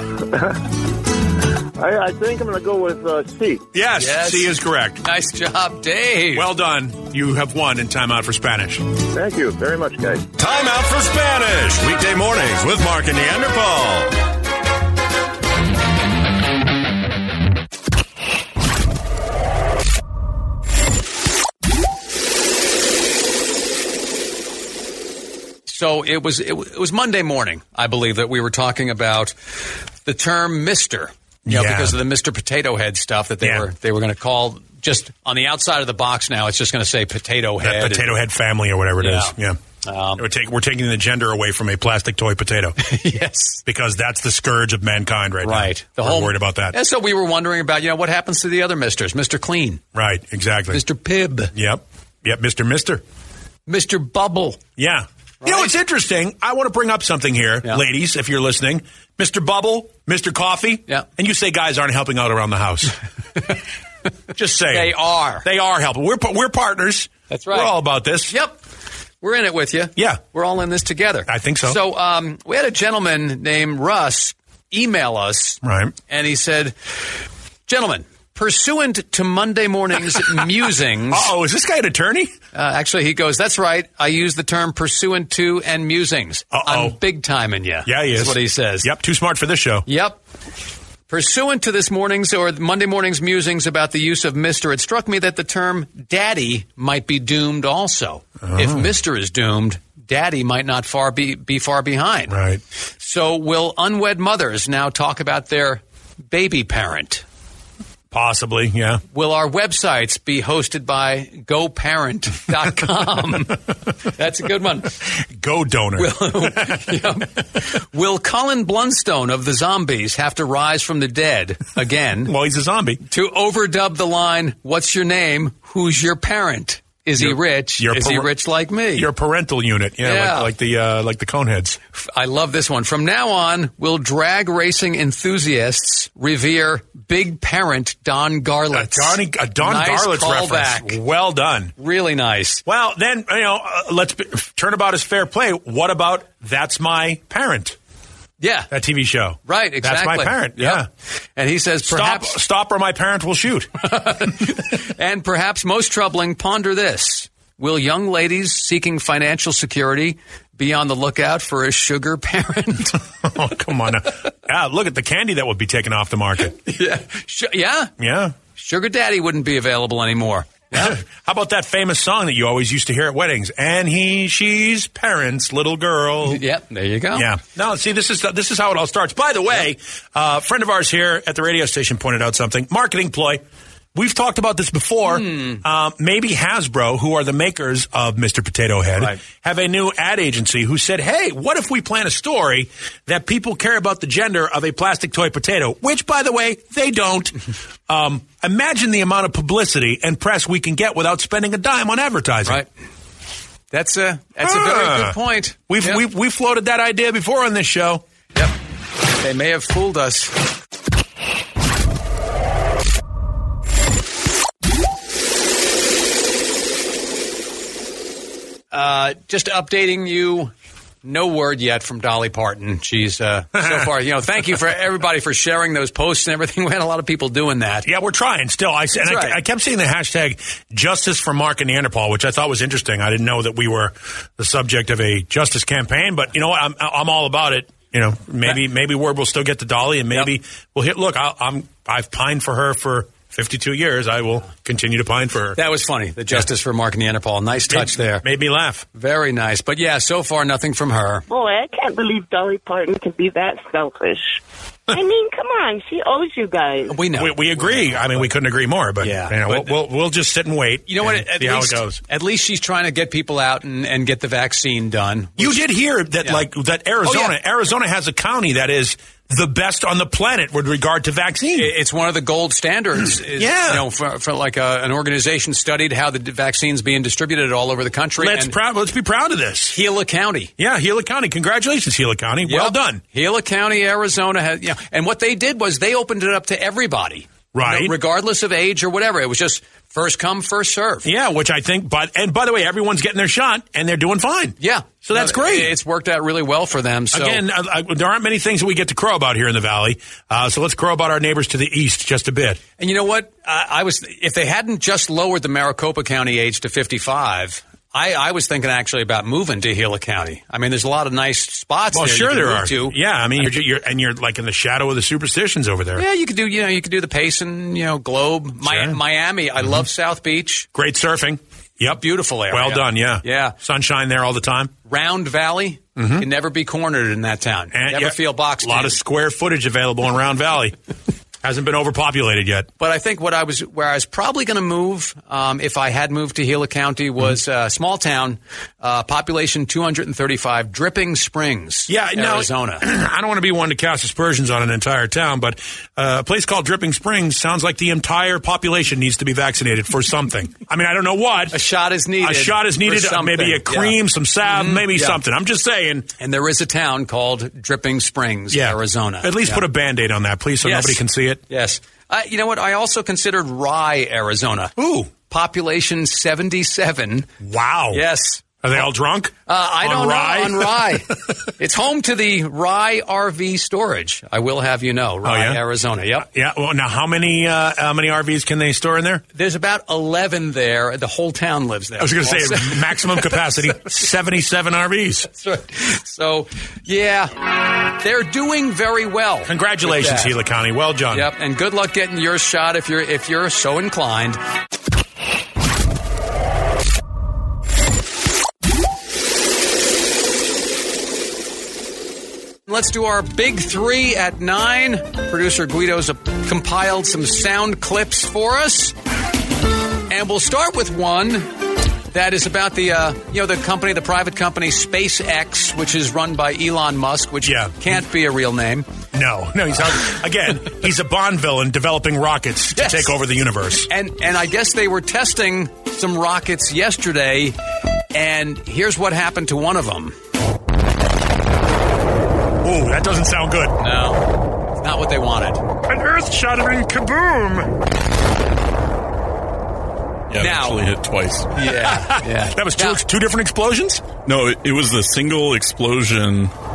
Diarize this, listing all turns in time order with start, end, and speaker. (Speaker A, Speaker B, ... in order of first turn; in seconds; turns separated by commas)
Speaker A: 1.8-3.7, Speaker B: 3.7-5.0, Speaker C: 4.0-6.5, Speaker B: 6.3-8.9, Speaker A: 9.1-10.3, Speaker D: 10.3-14.1, Speaker C: 25.7-29.3, Speaker C: 30.1-38.2, Speaker B: 31.5-32.0, Speaker B: 33.4-33.7, Speaker B: 37.6-39.6, Speaker C: 39.0-40.2, Speaker B: 40.2-42.8, Speaker C: 42.8-43.6, Speaker B: 43.6-46.8, Speaker C: 45.4-49.8, Speaker B: 49.9-50.8, Speaker C: 50.7-51.5, Speaker B: 51.5-53.0, Speaker C: 53.7-54.6, Speaker B: 54.8-63.0, Speaker C: 55.4-55.7, Speaker B: 64.3-68.3, Speaker C: 64.7-65.5, Speaker C: 67.3-68.6, Speaker C: 69.2-76.8, Speaker B: 70.0-70.2, Speaker B: 71.3-71.8, Speaker B: 75.6-75.9, Speaker C: 77.7-81.3, Speaker B: 81.1-82.3, Speaker C: 82.5-88.9, Speaker B: 86.5-87.0, Speaker B: 87.9-89.9, Speaker C: 89.9-90.2, Speaker C: 91.1-102.4, Speaker B: 98.4-98.9, Speaker B: 102.3-102.6, Speaker C: 103.0-107.2, Speaker B: 108.1-109.0, Speaker C: 109.1-115.0, Speaker B: 115.3-117.0, Speaker C: 116.0-122.3, Speaker B: 122.3-123.0, Speaker C: 123.0-129.1, Speaker B: 127.2-128.3, Speaker B: 128.9-131.8, Speaker C: 130.0-130.5, Speaker C: 131.9-141.0, Speaker B: 138.7-141.7, Speaker C: 141.8-142.6, Speaker B: 142.7-147.8, Speaker C: 148.4-148.7, Speaker B: 148.7-150.9, Speaker C: 149.5-152.4, Speaker B: 151.9-153.7, Speaker C: 153.8-163.0, Speaker B: 163.2-166.6, Speaker C: 166.6-167.9, Speaker B: 168.0-168.3, Speaker C: 168.6-171.0, Speaker B: 170.7-176.4, Speaker C: 176.3-177.3, Speaker B: 177.1-183.4, Speaker B: 183.9-202.6, Speaker C: 185.1-185.6, Speaker C: 203.7-206.0, Speaker B: 204.4-205.2, Speaker B: 205.7-208.0, Speaker C: 209.2-210.3, Speaker C: 218.7-220.5, Speaker C: 221.0-227.9, Speaker B: 223.6-223.9, Speaker B: 227.8-245.6, Speaker C: 229.0-229.4, Speaker C: 245.6-248.2, Speaker B: 247.7-248.9, Speaker C: 248.9-251.3, Speaker E: 251.3-254.4, Speaker E: 254.9-257.0, Speaker C: 256.9-258.3, Speaker B: 257.1-262.0, Speaker C: 259.0-259.8, Speaker C: 260.9-265.7, Speaker B: 265.4-271.7, Speaker C: 267.0-267.4, Speaker C: 271.5-278.6, Speaker B: 273.4-273.9, Speaker B: 278.2-279.8, Speaker C: 279.7-280.5, Speaker B: 280.6-283.0, Speaker C: 282.4-291.1, Speaker B: 287.5-288.0, Speaker B: 291.1-295.7, Speaker C: 294.6-297.4, Speaker B: 297.1-302.6, Speaker C: 302.8-313.6, Speaker B: 311.9-316.0, Speaker C: 316.0-320.7, Speaker B: 318.6-319.0, Speaker B: 320.7-324.7, Speaker C: 321.9-323.6, Speaker C: 324.9-329.0, Speaker B: 326.0-326.3, Speaker B: 327.7-330.8, Speaker B: 331.4-332.7, Speaker C: 332.8-342.9, Speaker B: 341.9-351.6, Speaker C: 351.5-355.2, Speaker B: 352.2-356.1, Speaker C: 356.2-359.6, Speaker B: 358.5-361.4, Speaker C: 360.6-367.3, Speaker B: 367.4-368.0, Speaker C: 367.9-368.4, Speaker B: 368.6-371.0, Speaker C: 369.5-376.3, Speaker B: 375.2-375.6, Speaker B: 376.2-379.2, Speaker C: 379.3-383.3, Speaker B: 382.0-385.3, Speaker C: 385.3-387.4, Speaker C: 387.9-390.4, Speaker B: 389.5-391.3, Speaker C: 391.1-394.4, Speaker C: 402.7-408.9, Speaker C: 410.1-411.5, Speaker C: 412.1-418.9, Speaker B: 417.4-418.0, Speaker B: 419.1-423.9, Speaker C: 422.8-423.1, Speaker C: 423.9-427.6, Speaker C: 428.1-430.1, Speaker B: 432.6-433.8, Speaker C: 433.8-435.6, Speaker B: 435.9-437.7, Speaker F: 440.3-441.5, Speaker C: 440.4-440.8, Speaker C: 441.5-443.0, Speaker B: 441.7-444.1, Speaker F: 444.2-446.5